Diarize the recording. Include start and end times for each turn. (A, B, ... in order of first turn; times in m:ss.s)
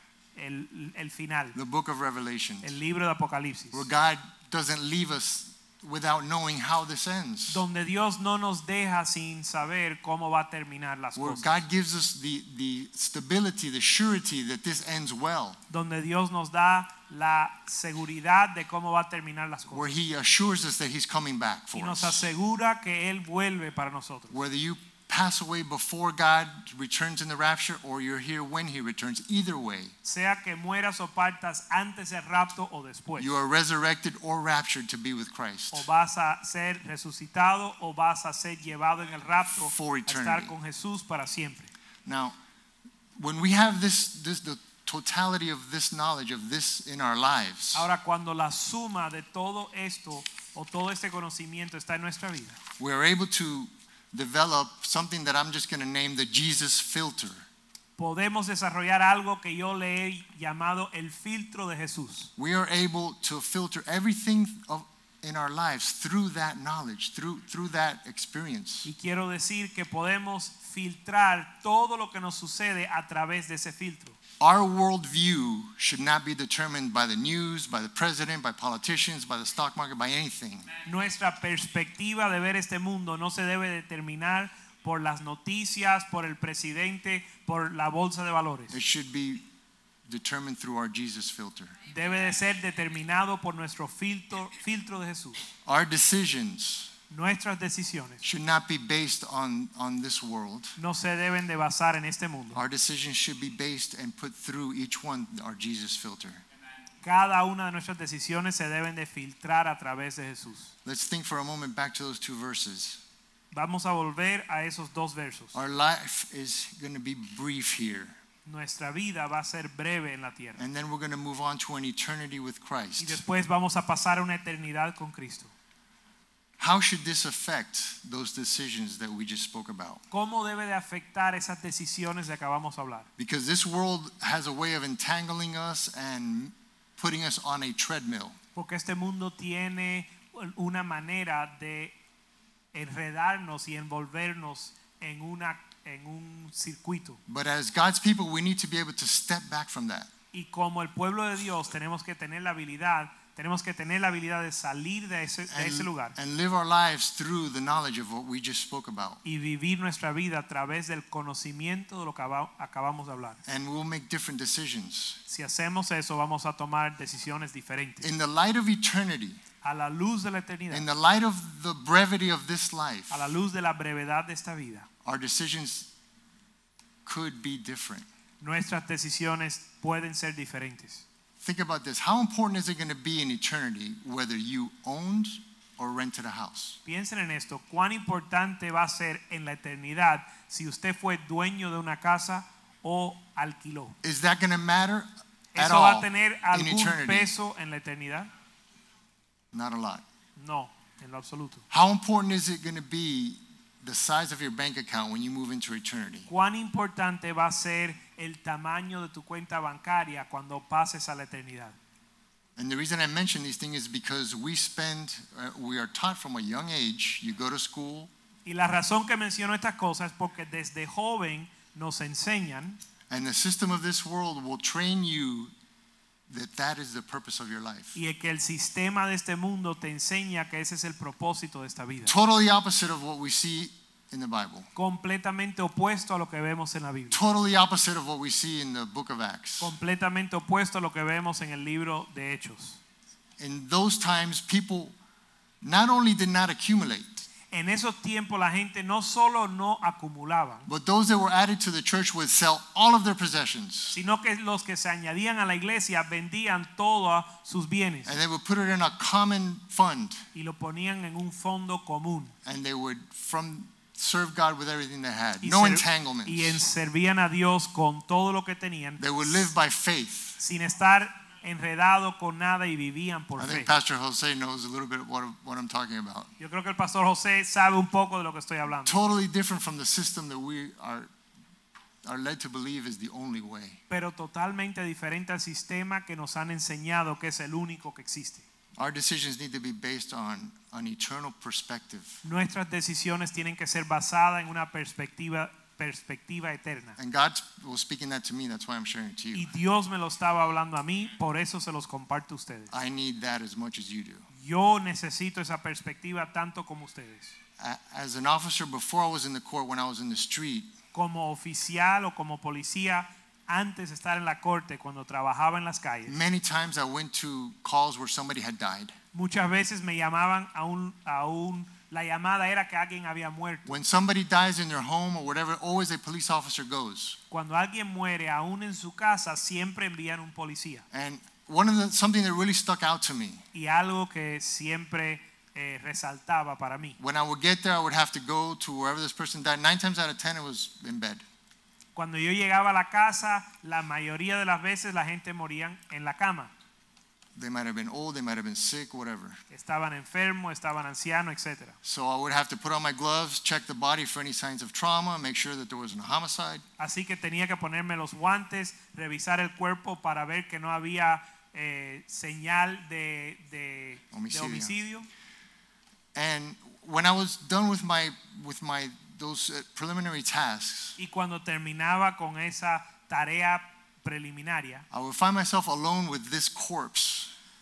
0:00.4-0:01.6 A
0:01.5-0:02.8 B
0:02.6-0:03.9 A
0:03.7-0:07.6 B
0:07.5-0:11.5 A
0:11.2-0:15.6 B
0:15.7-0:20.0 A
0:19.7-0:22.3 B
0:21.8-0:24.4 A
0:24.3-0:29.9 B
0:30.0-0:33.3 A
0:33.2-0:35.9 B
0:35.7-0:41.7 A
0:39.5-0:40.5 B
0:42.0-0:42.4 B
0:43.2-0:47.9 B
0:47.7-0:52.6 A
0:52.8-0:57.5 B
0:58.0-1:02.3 A
1:02.4-1:08.9 B
1:08.8-1:14.2 A
1:14.4-1:20.7 B
1:20.8-1:28.8 A
1:28.7-1:29.5 B
1:30.1-1:31.8 B
1:31.9-1:35.4 A
1:35.6-1:36.9 B
1:37.1-1:38.2 A
1:38.2-1:40.8 B
1:40.8-1:42.6 A
1:42.5-1:46.4 B
1:47.0-1:50.7 A
1:50.8-1:53.0 B
1:53.5-1:55.6 A
1:55.5-1:58.2 B
1:58.4-2:00.6 A
2:00.6-2:03.2 B
2:03.0-2:05.5 A
2:06.6-2:10.0 B
2:10.1-2:13.1 A
2:13.2-2:18.4 B
2:18.6-2:21.9 A
2:22.7-2:27.2 A
2:27.3-2:30.1 B
2:30.3-2:36.2 A
2:35.5-2:39.2 B
2:39.2-2:43.4 A
2:43.5-2:45.2 B
2:45.3-2:48.1 A
2:48.0-2:49.4 B
2:49.6-2:50.9 A
2:50.7-2:53.3 B
2:53.1-2:54.9 A
2:55.0-2:55.9 B
2:57.0-2:58.1 B
2:58.4-3:01.0 A
3:01.4-3:06.8 B
3:06.8-3:14.0 A
3:14.0-3:17.3 B
3:15.6-3:18.3 A
3:19.5-3:20.0 B
3:20.4-3:21.6 A
3:21.7-3:26.3 B
3:26.3-3:31.8 A
3:32.6-3:38.1 B
3:38.5-3:42.8 A
3:43.1-3:45.5 B
3:46.3-3:48.0 B
3:48.0-3:52.2 A
3:52.1-3:54.7 B
3:54.8-3:57.2 A
3:57.1-3:59.7 B
3:59.6-4:02.8 A
4:03.4-4:05.0 B
4:05.6-4:07.3 B
4:07.5-4:10.7 A
4:10.7-4:14.0 B
4:13.9-4:18.2 A
4:18.1-4:20.2 B
4:20.3-4:22.3 A
4:22.4-4:26.6 B
4:25.4-4:29.5 A
4:29.0-4:30.4 B
4:30.4-4:33.7 A
4:33.4-4:36.3 B
4:36.4-4:39.0 A
4:38.9-4:41.1 B
4:42.0-4:43.8 B
4:43.9-4:48.4 A
4:48.8-4:52.2 B
4:52.2-4:57.0 A
4:57.0-4:59.5 B
4:59.3-5:02.7 A
5:02.7-5:04.3 B
5:04.4-5:07.4 A
5:07.6-5:10.7 B
5:10.9-5:16.2 A
5:16.1-5:19.0 B
5:19.1-5:23.8 A
5:23.7-5:27.2 B
5:27.3-5:30.8 A
5:30.9-5:33.4 B
5:33.5-5:37.0 A
5:37.0-5:41.2 B
5:42.0-5:46.5 A
5:47.4-5:49.4 B
5:49.5-5:51.8 A
5:51.8-5:56.6 B
5:56.8-6:05.1 A
6:04.1-6:04.8 B
6:06.1-6:11.0 B
6:11.0-6:14.8 A
6:14.9-6:17.3 B